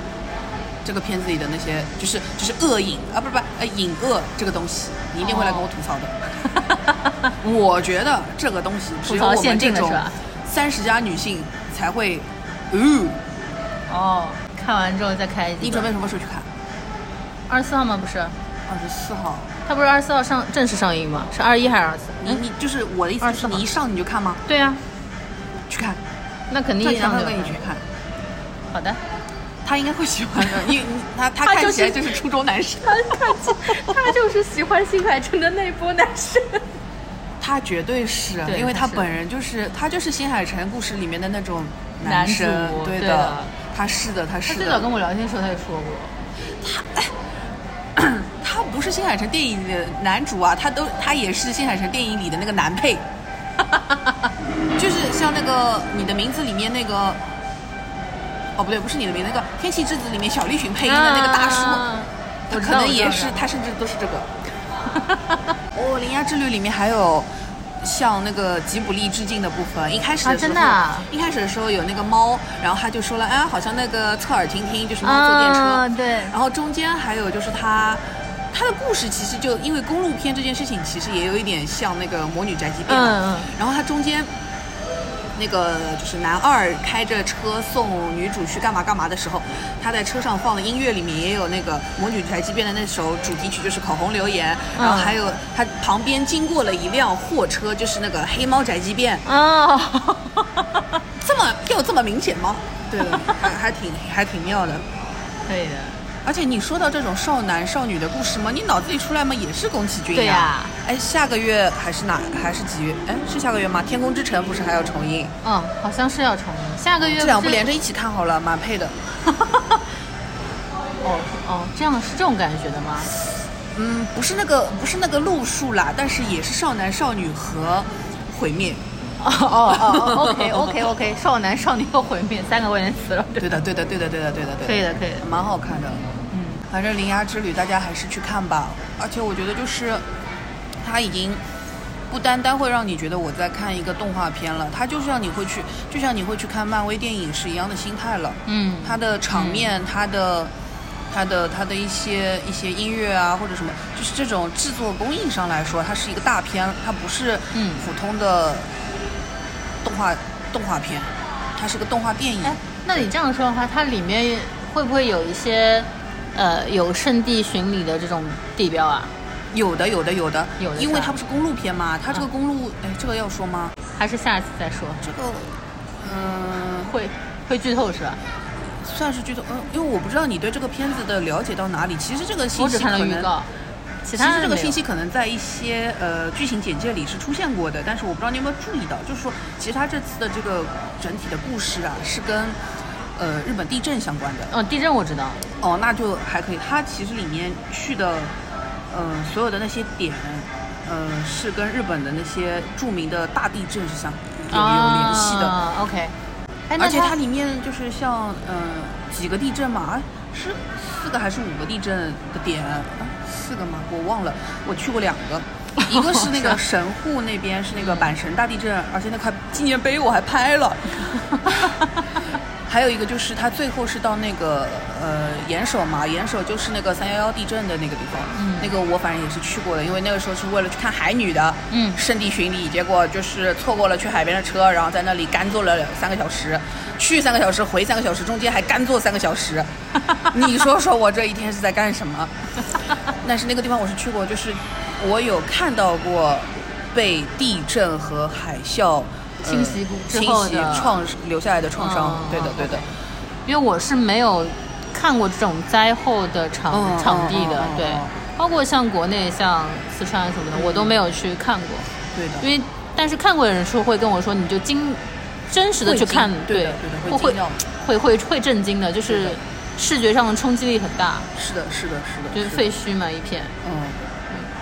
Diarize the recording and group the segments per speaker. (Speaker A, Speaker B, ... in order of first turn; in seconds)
Speaker A: 0.8-6.2, 7.4-13.2, 15.6-16.5, 18.7-19.5, 22.2-24.4, 25.7-26.0, 26.8-27.8, 29.6-34.1, 37.4-44.9, 46.6-47.1, 47.9-53.1, 54.7-57.2, 58.5-61.9, 62.5-64.3, 65.7-67.3, 67.8-84.3, 85.3-99.2, 101.2-104.9, 106.2-115.3, 117.0-119.0, 123.7-128.8, 129.7-130.7, 133.4-136.1, 136.7-140.0, 140.8-141.4, 142.1-150.5, 151.1-158.7, 159.8-163.1, 169.5-173.7, 175.0-176.9, 178.7-183.3, 184.1-192.6, 193.2-194.5, 195.6-198.3, 198.9-205.6, 206.8-221.8, 222.7-242.3, 243.2-252.8, 256.7-258.1, 260.5-261.0, 262.1-262.5, 265.8-267.6, 269.1-269.4, 271.3-272.7, 273.6-274.0
Speaker B: 5.2-5.7, 6.5-7.3, 9.1-10.2, 13.9-15.9, 17.5-18.4, 19.6-22.4, 23.2-23.6, 24.5-24.8, 26.5-27.6, 28.7-29.0, 31.4-32.2, 32.8-36.6, 38.4-39.1, 42.0-43.5, 44.5-46.2, 53.6-54.3, 60.8-63.4, 65.0-65.4, 70.2-71.1, 75.0-76.3, 82.9-83.5, 94.8-95.2, 99.2-100.8, 103.0-103.5, 105.5-106.0, 110.1-110.7, 115.4-117.6, 119.3-119.8, 121.0-123.1, 129.2-133.6, 134.6-135.3, 136.3-136.6, 148.5-149.7, 157.5-157.9, 162.4-169.1, 170.6-171.2, 173.9-175.1, 176.8-178.2, 182.6-183.5, 184.0-184.8, 194.5-195.4, 204.5-206.1, 206.7-207.2, 215.8-216.6, 217.8-218.1, 221.2-222.0, 228.3-228.7, 231.7-232.0, 249.4-251.0, 251.8-252.9, 253.4-261.9, 262.4-271.3, 272.3-273.6